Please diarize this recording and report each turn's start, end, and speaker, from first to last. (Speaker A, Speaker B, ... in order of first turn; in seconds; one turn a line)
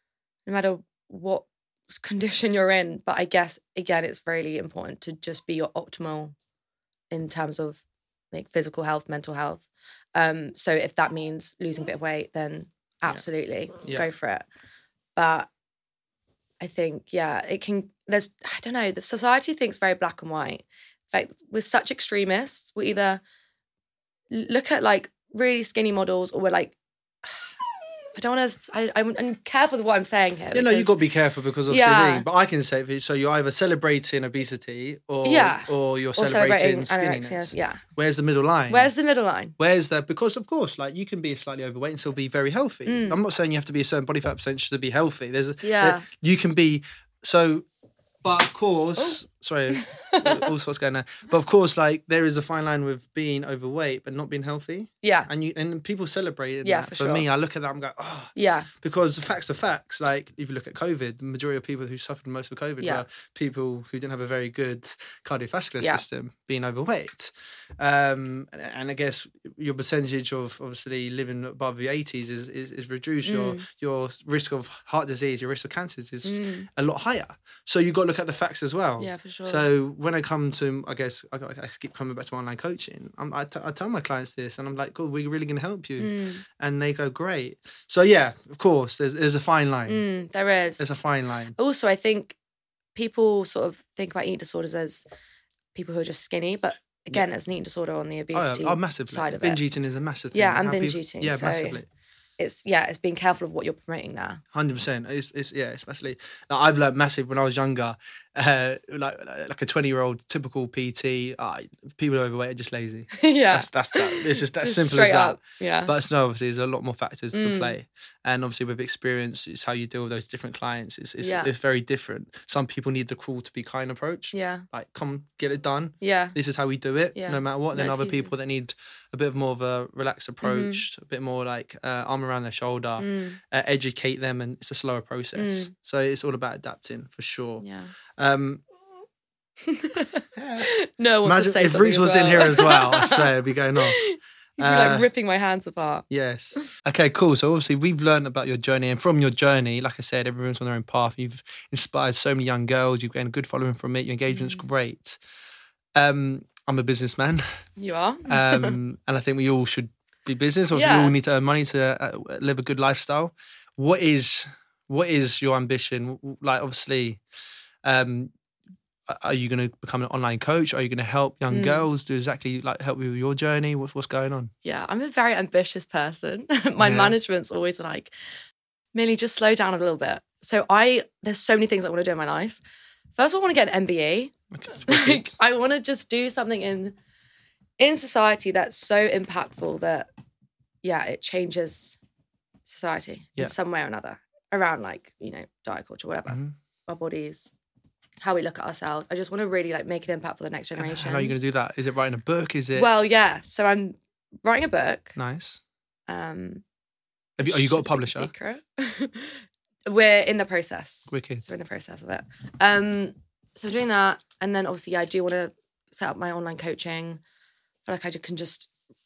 Speaker A: 0.5-6.3
Speaker A: 7.1-14.5
Speaker A: 15.2-15.5
Speaker A: 16.6-23.2
Speaker A: 24.3-26.8
Speaker A: 28.1-31.0
Speaker B: 30.5-38.9
Speaker A: 31.7-32.3
Speaker A: 35.2-37.8
Speaker A: 38.7-39.5
Speaker B: 39.6-47.7
Speaker A: 42.9-43.2
Speaker A: 45.6-46.0
Speaker B: 48.2-90.0
Speaker A: 49.7-50.5
Speaker A: 55.0-55.3
Speaker A: 56.6-57.3
Speaker A: 58.4-58.7
Speaker A: 73.2-73.7
Speaker A: 76.2-76.7
Speaker A: 79.0-79.7
Speaker A: 86.0-86.4
Speaker A: 89.9-91.0
Speaker B: 90.8-91.5
Speaker A: 91.6-92.4
Speaker A: 93.0-95.0
Speaker A: 95.8-99.6
Speaker B: 98.3-101.9
Speaker A: 100.3-101.8
Speaker A: 102.4-104.4
Speaker B: 104.5-137.7
Speaker A: 113.1-115.9
Speaker A: 117.3-117.8
Speaker A: 121.2-121.5
Speaker A: 124.3-124.7
Speaker A: 126.0-126.4
Speaker A: 127.2-128.3
Speaker A: 130.4-130.8
Speaker A: 133.0-133.4
Speaker A: 135.4-135.7
Speaker A: 137.6-137.9
Speaker B: 138.2-138.6
Speaker A: 139.6-146.1
Speaker B: 140.3-140.7
Speaker B: 141.2-144.1
Speaker B: 144.6-145.1
Speaker B: 146.1-155.2
Speaker A: 154.3-154.6
Speaker B: 156.0-157.5
Speaker A: 157.8-158.8
Speaker B: 158.3-167.2
Speaker A: 160.7-161.2
Speaker B: 167.8-168.3
Speaker B: 169.1-174.5
Speaker A: 171.5-171.9
Speaker A: 174.6-178.1
Speaker B: 176.8-177.2
Speaker A: 178.9-182.6
Speaker A: 183.2-187.0
Speaker B: 184.5-185.3
Speaker A: 187.8-190.1
Speaker A: 190.8-192.0
Speaker A: 192.7-197.5
Speaker B: 196.3-196.6
Speaker A: 198.2-201.4
Speaker B: 200.8-202.9
Speaker A: 202.8-205.2
Speaker B: 205.2-205.6
Speaker A: 206.1-206.6
Speaker B: 207.4-208.3
Speaker A: 207.4-217.2
Speaker B: 211.1-211.4
Speaker A: 217.9-218.7